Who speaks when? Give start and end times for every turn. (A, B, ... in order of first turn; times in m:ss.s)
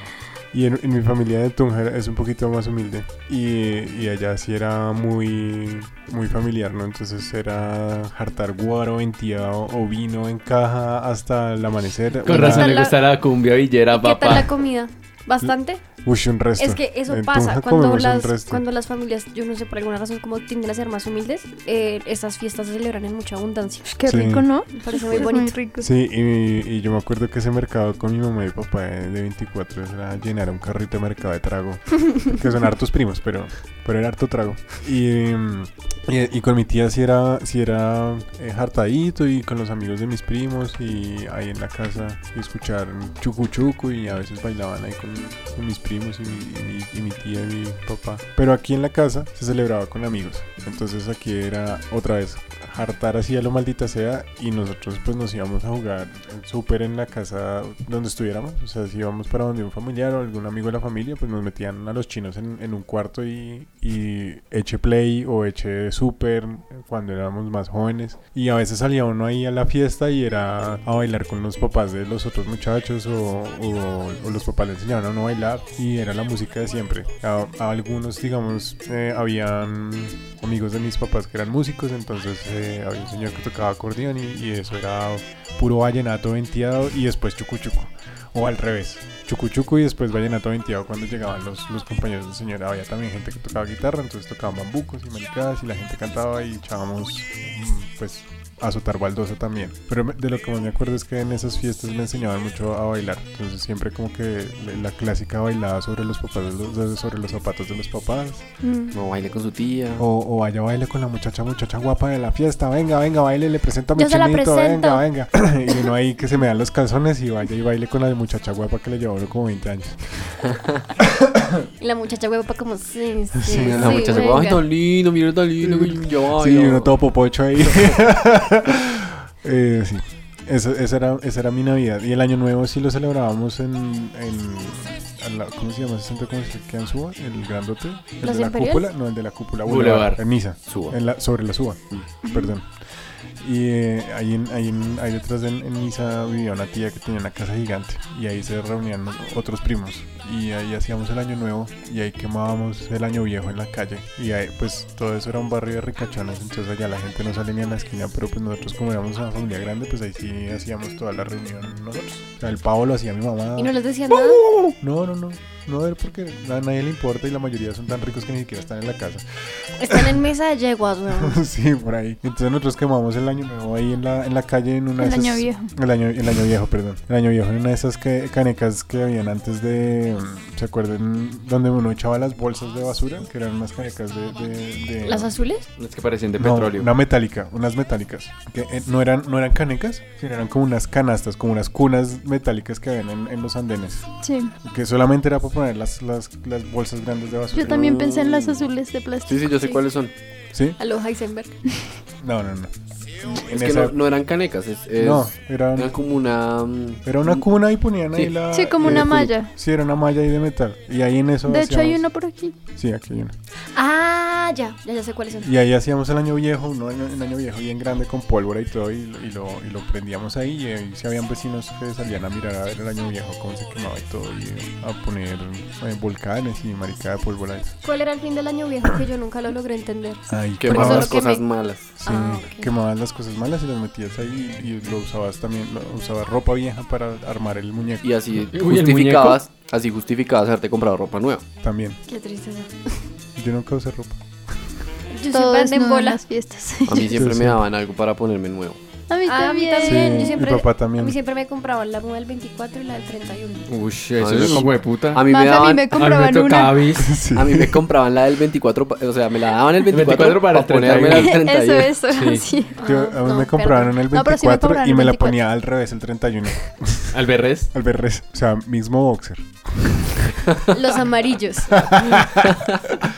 0:00.5-0:12.8 A
0:12.2-0:14.5 B
0:12.3-0:12.9 C
0:12.4-0:12.9 D
0:13.9-0:15.8 C
0:16.0-0:18.6 A
0:16.6-0:23.9 C
0:23.9-0:25.9 D
0:24.0-0:24.5 A
0:24.8-0:25.6 C
0:25.8-1:48.4 A
1:48.6-1:49.0 C
1:48.9-1:50.0 E
1:50.0-2:00.4 A
1:54.0-1:55.1 C
2:01.0-2:01.6 A
2:01.8-2:04.6 C
2:03.4-2:04.4 A
2:03.5-2:07.0 E
2:05.6-2:22.8 A
2:18.2-2:18.9 C
2:19.6-2:20.2 B
2:20.7-2:21.0 E
2:23.4-2:43.7 A
2:43.6-2:44.5 C
2:44.3-2:49.2 A
2:49.8-2:51.4 C
2:49.9-2:50.2 A
2:51.2-3:05.3 A
2:55.0-2:55.7 D
3:05.0-3:05.7 C
3:05.8-3:06.9 B
3:06.4-3:18.0 A
3:14.2-3:14.5 D
3:17.5-3:19.8 D
3:17.7-3:18.7 E
3:19.3-3:20.1 E
3:20.8-3:21.5 C
3:22.2-3:22.7 A
3:23.2-3:24.0 A
3:23.3-3:27.4 E
3:25.0-3:25.9 A
3:27.0-3:32.0 A
3:28.5-3:29.5 D
3:31.5-3:32.6 D
3:32.7-3:33.3 A
3:33.7-3:35.5 C
3:35.4-3:47.8 A
3:47.8-3:51.5 C
3:50.3-3:51.2 A
3:50.6-3:51.9 E
3:52.0-3:58.2 A
3:52.0-3:52.7 C
3:58.0-4:01.4 E
3:58.5-3:59.4 B
4:01.6-4:02.0 A
4:02.1-4:02.9 C
4:03.4-4:04.2 A
4:05.1-4:06.2 C
4:05.3-4:07.2 D
4:06.9-4:08.8 E
4:07.1-4:07.6 A
4:09.1-4:10.4 D
4:09.2-4:13.7 C
4:09.8-4:11.2 A
4:13.7-4:15.3 B
4:14.2-4:16.1 E
4:15.3-4:17.0 D
4:15.9-4:17.2 B
4:17.0-4:17.9 A
4:17.3-4:22.0 E
4:19.9-4:21.4 B
4:21.1-4:22.8 D
4:22.1-4:22.4 B
4:22.8-4:24.0 C
4:22.8-4:27.2 A
4:24.1-4:25.4 D
4:27.1-4:27.7 B
4:27.7-4:30.4 A
4:30.7-4:32.0 C
4:31.7-4:32.6 A